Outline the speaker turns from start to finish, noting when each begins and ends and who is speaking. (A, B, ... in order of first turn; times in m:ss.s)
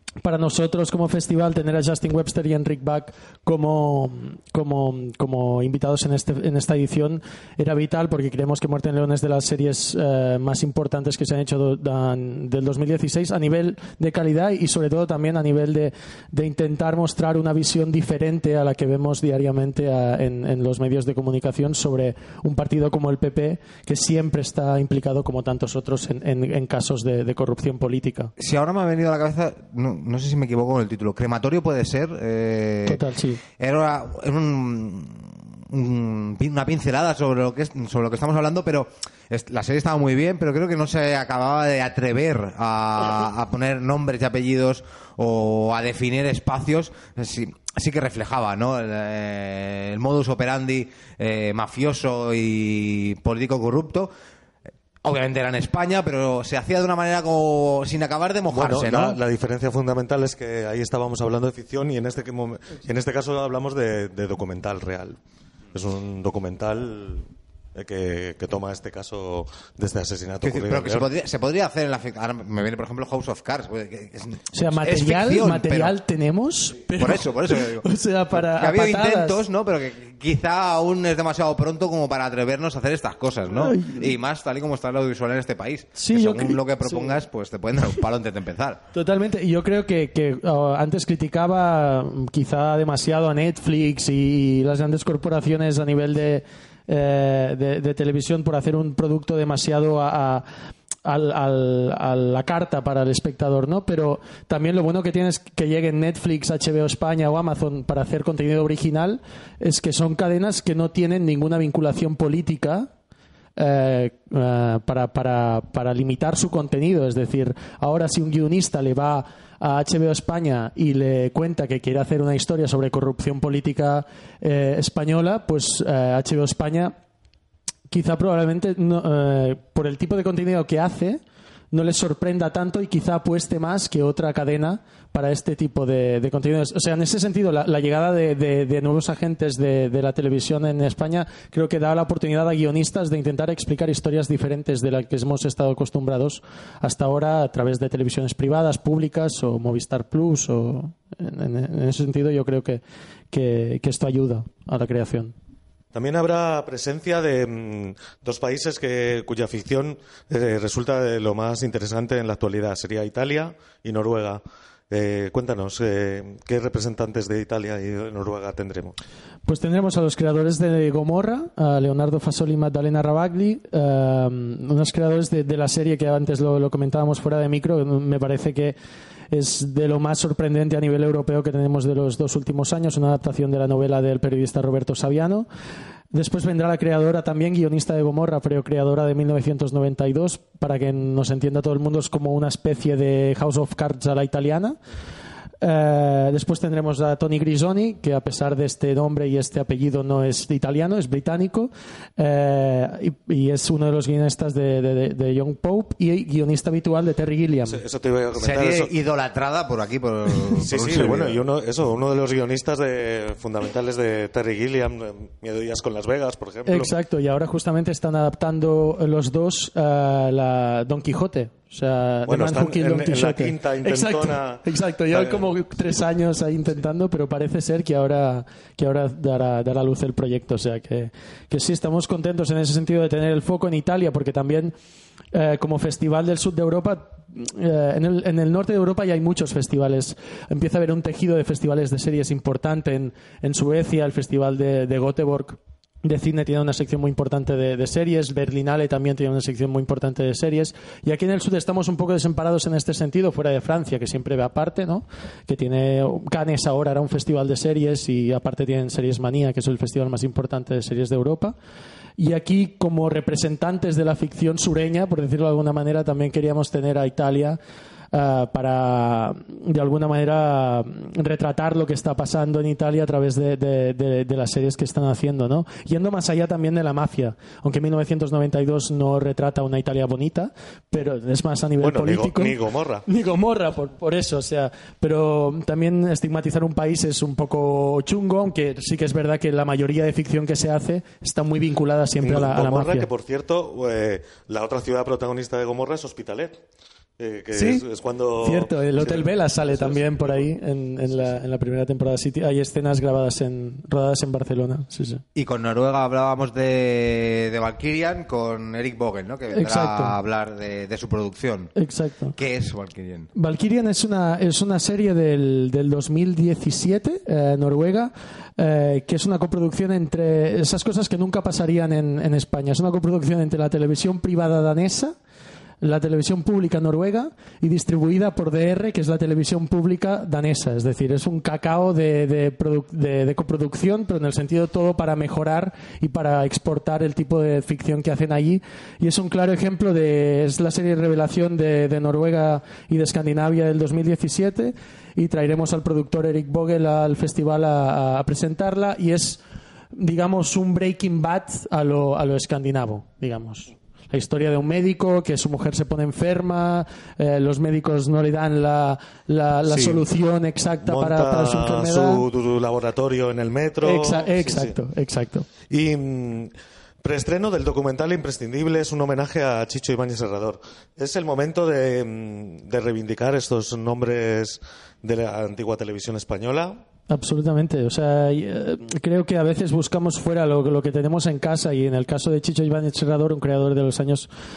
0:00.2-0:28.3 A
0:28.4-0:33.0 B
0:32.8-0:33.4 A
0:33.6-0:54.1 B
0:55.0-0:59.2 B
0:58.5-1:05.2 C
1:05.7-1:11.0 C
1:10.4-1:15.9 B
1:14.5-1:19.3 A
1:16.9-1:17.8 B
1:18.4-1:28.8 B
1:23.6-1:24.1 A
1:26.0-1:27.1 A
1:28.9-1:40.4 A
1:41.0-1:52.9 A
1:53.6-2:06.9 A
2:07.9-2:11.2 A
2:11.7-2:35.3 A
2:35.9-2:49.0 C
2:49.4-2:58.8 A
2:59.3-3:05.5 A
3:06.1-3:14.8 A
3:15.6-3:27.8 A
3:27.7-3:28.9 C
3:28.4-3:31.4 B
3:30.5-3:36.9 C
3:36.6-3:54.7 A
3:42.3-3:45.6 C
3:55.3-4:21.6 A
4:22.2-4:27.6 A
4:28.1-4:53.1 A
4:41.8-4:43.0 C
4:52.2-4:56.6 C
4:57.2-5:00.5 C
4:57.5-4:57.8 A
4:58.4-5:05.2 A
5:05.3-5:11.7 B
5:09.5-5:10.2 A
5:11.8-5:12.4 A
5:12.4-5:13.3 B
5:13.3-5:25.1 A
5:25.8-5:49.4 A
5:49.9-6:02.2 A
5:59.7-6:00.0 C
6:00.8-6:04.8 C
6:03.8-6:05.5 A
6:05.7-6:06.5 C
6:07.0-6:16.8 C
6:17.1-6:24.3 A